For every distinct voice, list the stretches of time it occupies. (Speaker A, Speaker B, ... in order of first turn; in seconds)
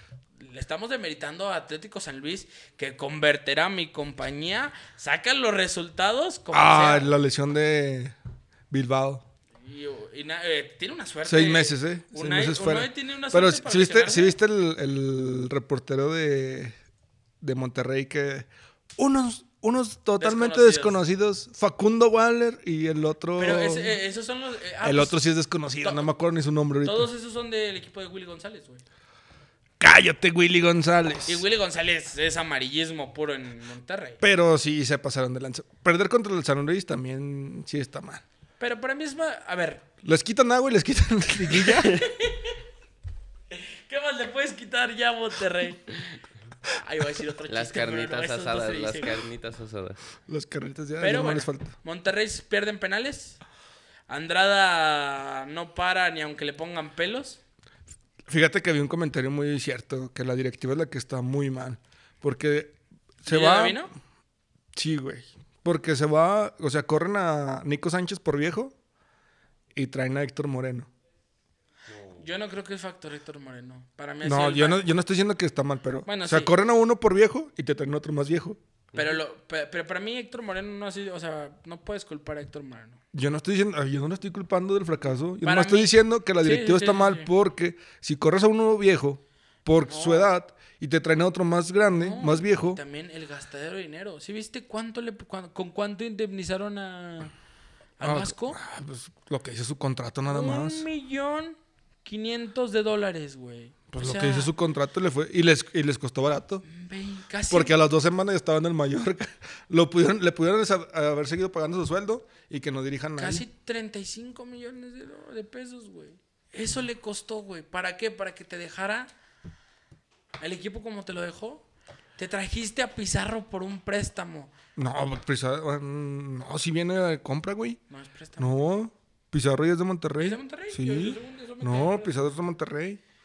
Speaker A: 0.4-7.1, 9.6-14.4, 20.2-21.0, 23.4-25.2, 25.8-26.1, 26.8-28.8, 31.3-34.2, 38.6-39.8, 41.5-42.5, 43.5-46.0, 46.7-49.2, 51.0-53.4, 54.1-57.4, 63.2-63.9, 72.2-74.8, 76.1-76.5, 78.9-83.0, 85.4-87.3, 89.9-90.3, 91.9-97.3, 98.0-98.6, 100.3-104.5, 106.7-107.7, 113.2-119.1, 120.4-121.6, 122.2-124.5, 127.9-128.6, 130.2-132.2
Speaker B: 6.5-8.1, 8.7-9.2, 11.2-16.7, 17.4-24.0, 24.8-27.1, 29.8-31.4, 34.2-38.2, 40.0-42.1, 50.3-51.7, 58.3-63.8, 64.7-68.7, 69.7-70.9, 74.2-78.6, 83.1-92.8, 98.0-100.9, 103.9-106.6, 107.5-113.4, 124.8-127.8, 128.4-133.0
Speaker C: 47.5-50.0, 71.9-72.3